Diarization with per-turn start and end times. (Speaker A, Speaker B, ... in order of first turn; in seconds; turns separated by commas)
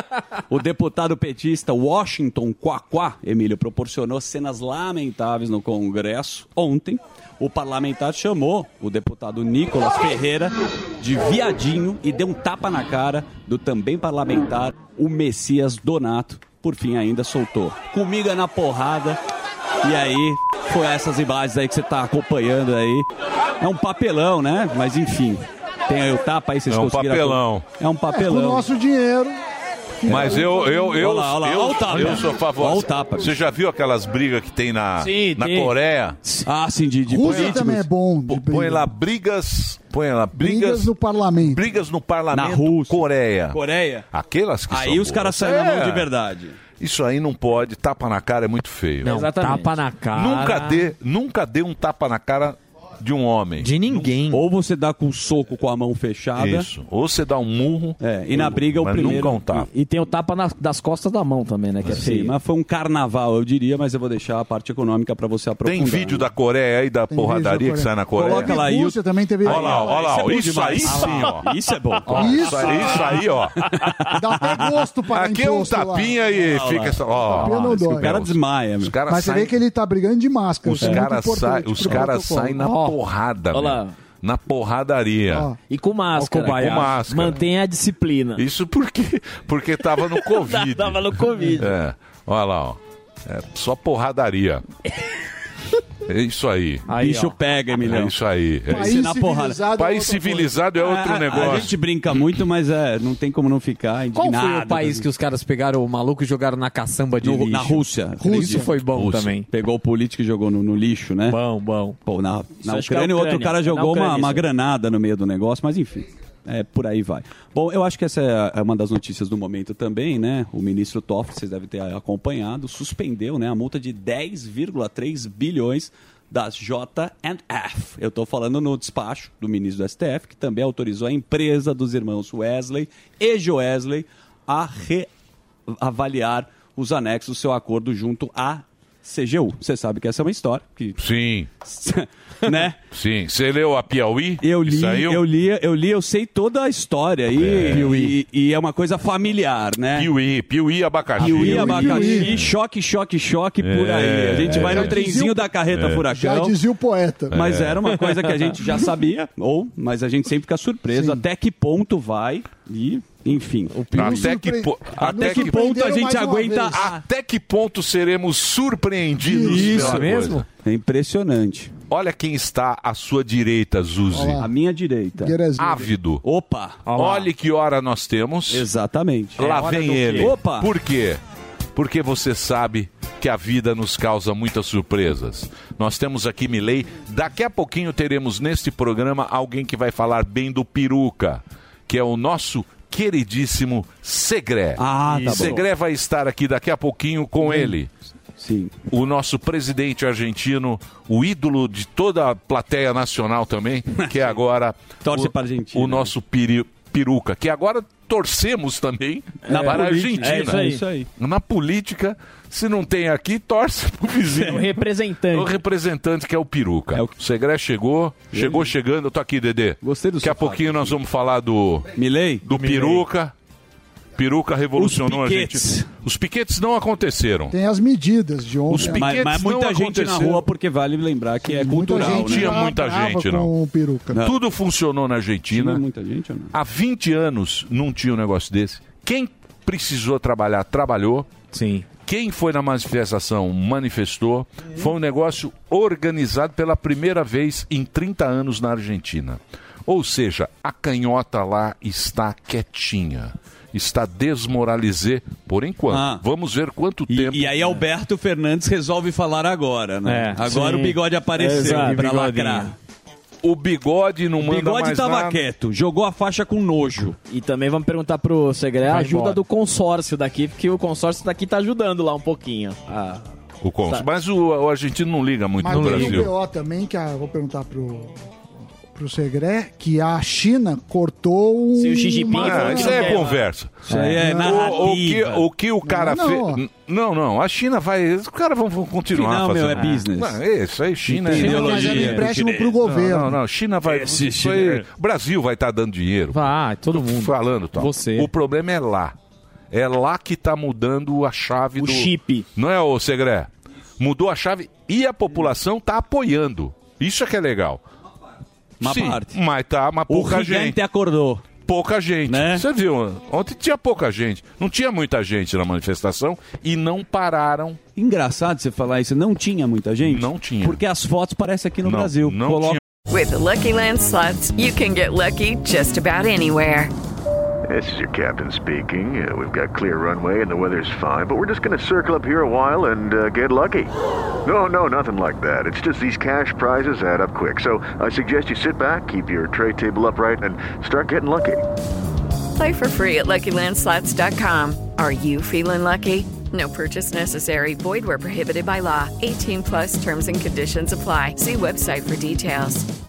Speaker A: 0.5-19.2, Speaker A: 19.8-23.1, Speaker A: 23.6-28.7, Speaker B: 26.7-27.7, Speaker C: 28.1-29.4, Speaker C: 30.0-30.9, Speaker A: 30.1-33.3, Speaker B: 30.1-36.2, Speaker D: 35.0-35.7, Speaker A: 36.2-37.9, Speaker C: 37.1-38.9, Speaker B: 37.2-37.6, Speaker B: 38.3-43.6, Speaker C: 40.4-41.6, Speaker A: 42.3-44.1, Speaker B: 44.1-46.1, Speaker A: 44.7-46.6, Speaker B: 46.8-49.2, Speaker D: 49.0-49.8, Speaker E: 49.0-50.9, Speaker B: 50.1-54.1, Speaker E: 53.6-54.5, Speaker A: 54.3-56.7, Speaker B: 56.4-59.7, Speaker A: 58.0-59.5, Speaker D: 59.5-62.4, Speaker A: 61.9-66.3, Speaker B: 65.6-68.7, Speaker C: 67.1-70.3, Speaker A: 68.2-73.1, Speaker B: 69.4-71.5, Speaker B: 72.1-73.9, Speaker C: 72.1-73.0, Speaker A: 73.6-74.6, Speaker C: 74.1-76.3, Speaker B: 74.4-79.6, Speaker A: 76.3-79.0, Speaker C: 77.3-78.2, Speaker C: 79.0-82.7, Speaker B: 80.6-85.5, Speaker E: 82.6-82.9, Speaker D: 83.5-83.9, Speaker C: 85.3-85.6, Speaker D: 85.7-88.4, Speaker E: 86.2-86.9, Speaker B: 86.4-87.4, Speaker B: 88.4-94.7, Speaker D: 90.0-91.7, Speaker B: 96.1-96.9, Speaker E: 96.9-97.4, Speaker A: 96.9-98.2, Speaker B: 97.8-99.0, Speaker C: 98.7-100.7, Speaker A: 98.7-99.7, Speaker B: 99.7-102.2, Speaker A: 100.8-105.1, Speaker E: 104.1-109.5, Speaker A: 107.2-108.7, Speaker C: 108.2-108.7, Speaker B: 108.8-109.3, Speaker A: 109.5-111.4, Speaker E: 111.3-112.0, Speaker A: 112.0-135.1, Speaker D: 112.6-114.5, Speaker A: 135.7-141.0, Speaker B: 141.0-141.5, Speaker A: 141.6-142.8, Speaker B: 142.9-145.2, Speaker A: 144.4-150.1, Speaker B: 147.3-148.0, Speaker E: 147.7-148.2, Speaker B: 149.9-152.5, Speaker A: 151.2-156.6, Speaker C: 151.2-152.4, Speaker B: 153.6-155.0, Speaker C: 154.5-155.6, Speaker B: 155.7-156.1, Speaker C: 156.1-157.5, Speaker B: 157.3-157.8, Speaker A: 157.3-164.3, Speaker C: 160.9-161.2, Speaker C: 163.9-166.9, Speaker B: 163.9-166.1, Speaker A: 165.1-167.0, Speaker B: 166.7-170.4, Speaker C: 169.2-170.0, Speaker A: 169.4-171.7, Speaker E: 169.9-170.5, Speaker B: 171.9-174.4, Speaker C: 174.1-174.5, Speaker A: 174.4-175.4, Speaker C: 175.2-175.9, Speaker B: 175.6-176.2, Speaker A: 176.2-176.9, Speaker E: 176.9-177.3, Speaker B: 176.9-178.7, Speaker A: 178.5-179.5, Speaker B: 179.4-181.2, Speaker E: 179.4-180.3, Speaker A: 180.2-180.7, Speaker B: 181.8-197.9, Speaker A: 194.8-195.7, Speaker E: 195.2-195.5, Speaker A: 197.4-197.8, Speaker A: 198.4-198.7, Speaker B: 198.9-210.7, Speaker A: 204.0-204.4, Speaker A: 205.0-206.1, Speaker D: 209.5-210.8, Speaker A: 209.5-211.1, Speaker B: 211.2-214.7, Speaker A: 214.3-214.7, Speaker D: 214.4-215.6, Speaker B: 215.3-221.9, Speaker A: 218.3-218.7, Speaker A: 219.8-221.0, Speaker A: 221.9-223.0, Speaker B: 222.4-223.3, Speaker B: 224.2-227.6, Speaker A: 224.8-225.9, Speaker C: 227.5-229.2, Speaker B: 228.7-230.5, Speaker A: 228.8-232.7, Speaker C: 231.4-234.3, Speaker B: 231.9-233.5, Speaker B: 234.2-235.8, Speaker A: 235.5-236.5, Speaker B: 236.5-241.3, Speaker E: 241.5-241.9, Speaker B: 242.0-257.8, Speaker A: 255.9-256.2, Speaker A: 257.1-262.8, Speaker E: 260.1-262.7, Speaker D: 261.4-262.0, Speaker B: 263.4-265.4, Speaker A: 264.4-267.2, Speaker D: 267.3-273.3, Speaker E: 268.8-269.4, Speaker B: 273.6-276.3, Speaker C: 275.6-278.3, Speaker E: 275.7-276.2, Speaker C: 278.9-283.2, Speaker D: 281.8-283.4, Speaker B: 282.3-299.1, Speaker A: 283.9-285.5, Speaker E: 283.9-284.2, Speaker C: 284.2-284.8, Speaker C: 285.8-286.6, Speaker A: 289.1-290.4, Speaker E: 289.8-290.0, Speaker A: 291.1-292.9, Speaker C: 291.3-293.4, Speaker A: 293.8-294.8, Speaker E: 296.3-298.3, Speaker B: 299.7-307.8, Speaker D: 301.8-302.4, Speaker A: 308.8-309.4, Speaker B: 308.8-310.8, Speaker A: 310.1-311.5, Speaker B: 311.6-317.8, Speaker A: 312.3-312.6, Speaker A: 318.0-322.8, Speaker B: 320.0-320.8, Speaker B: 321.8-322.8, Speaker F: 323.1-326.9, Speaker G: 327.7-333.9, Speaker G: 334.4-341.6, Speaker F: 342.6-352.9